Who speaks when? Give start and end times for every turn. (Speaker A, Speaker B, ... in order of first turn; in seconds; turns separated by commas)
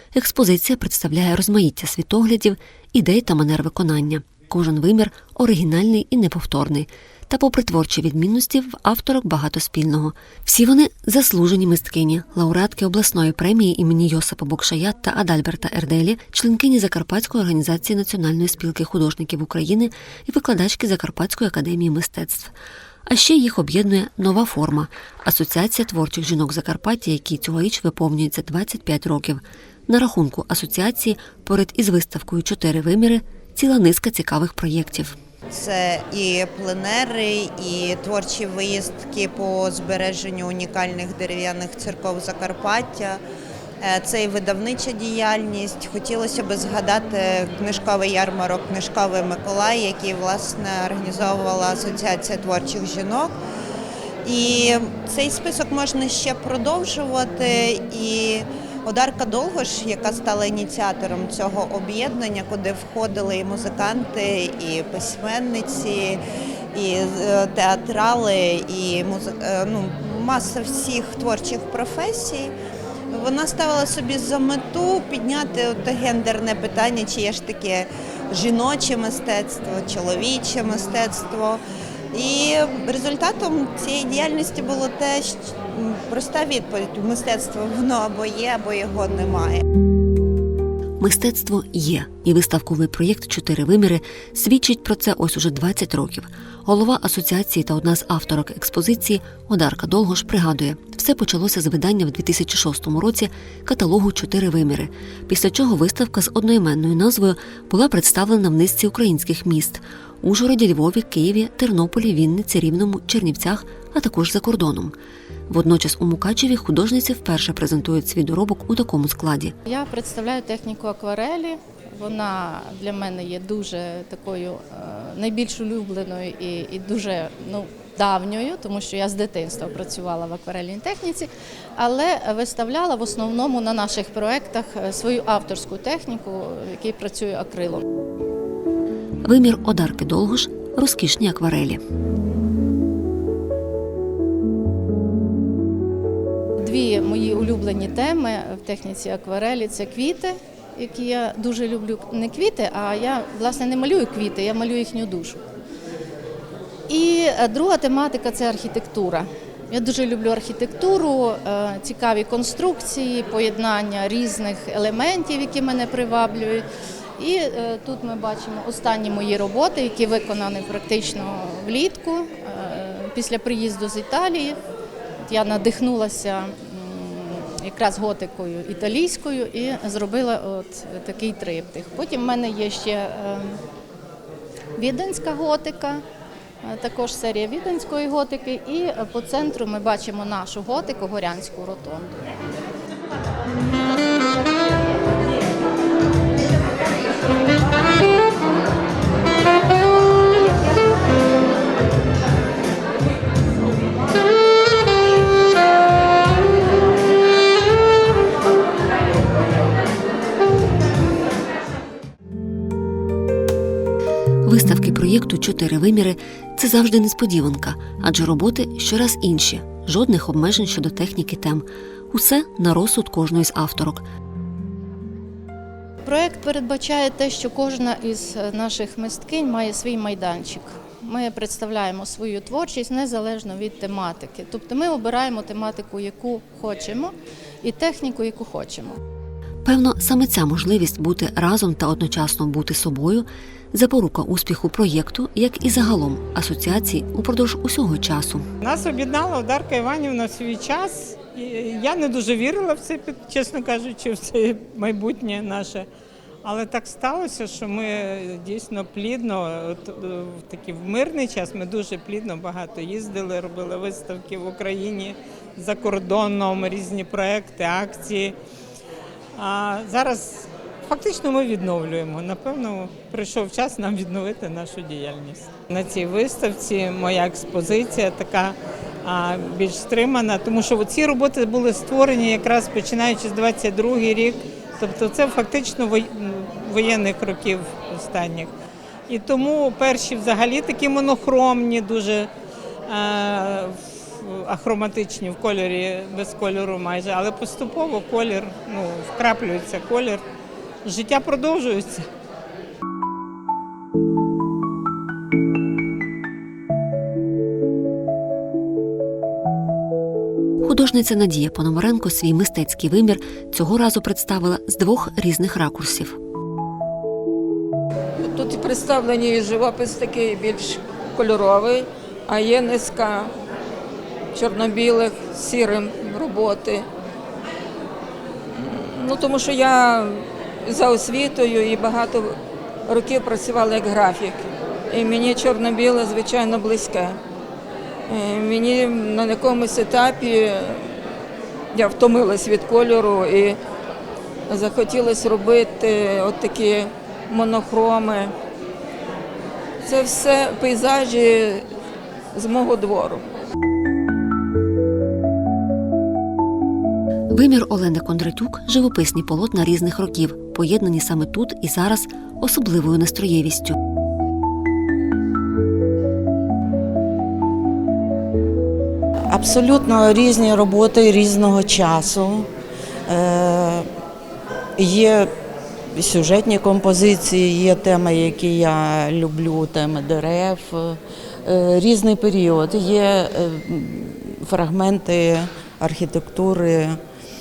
Speaker A: 0.1-22.5, Speaker A: 23.1-35.1, Speaker B: 35.5-43.2, Speaker B: 43.8-53.3, Speaker B: 54.2-66.2, Speaker B: 66.7-72.5, Speaker B: 73.1-81.6, Speaker B: 82.1-89.6, Speaker A: 91.0-114.9, Speaker A: 115.5-119.5, Speaker C: 119.7-137.8, Speaker A: 139.2-141.8, Speaker C: 146.6-155.4, Speaker C: 156.9-166.6, Speaker C: 167.2-174.6, Speaker C: 175.2-183.6, Speaker C: 184.8-186.0, Speaker C: 186.6-192.3, Speaker A: 214.4-224.0, Speaker C: 226.0-239.0, Speaker A: 239.6-248.5, Speaker D: 248.6-255.8, Speaker D: 256.4-268.4, Speaker D: 269.4-288.5, Speaker D: 289.1-292.3, Speaker D: 292.9-300.2, Speaker D: 300.8-302.1, Speaker A: 310.6-316.1, Speaker E: 318.2-323.3, Speaker E: 324.3-326.9, Speaker E: 328.5-337.2, Speaker E: 338.1-341.0, Speaker E: 341.7-343.6, Speaker E: 344.5-348.3, Speaker E: 349.8-351.7, Speaker E: 352.3-353.3, Speaker A: 357.3-363.8, Speaker F: 369.3-372.5, Speaker F: 373.1-373.9, Speaker F: 374.8-375.3, Speaker F: 375.9-387.0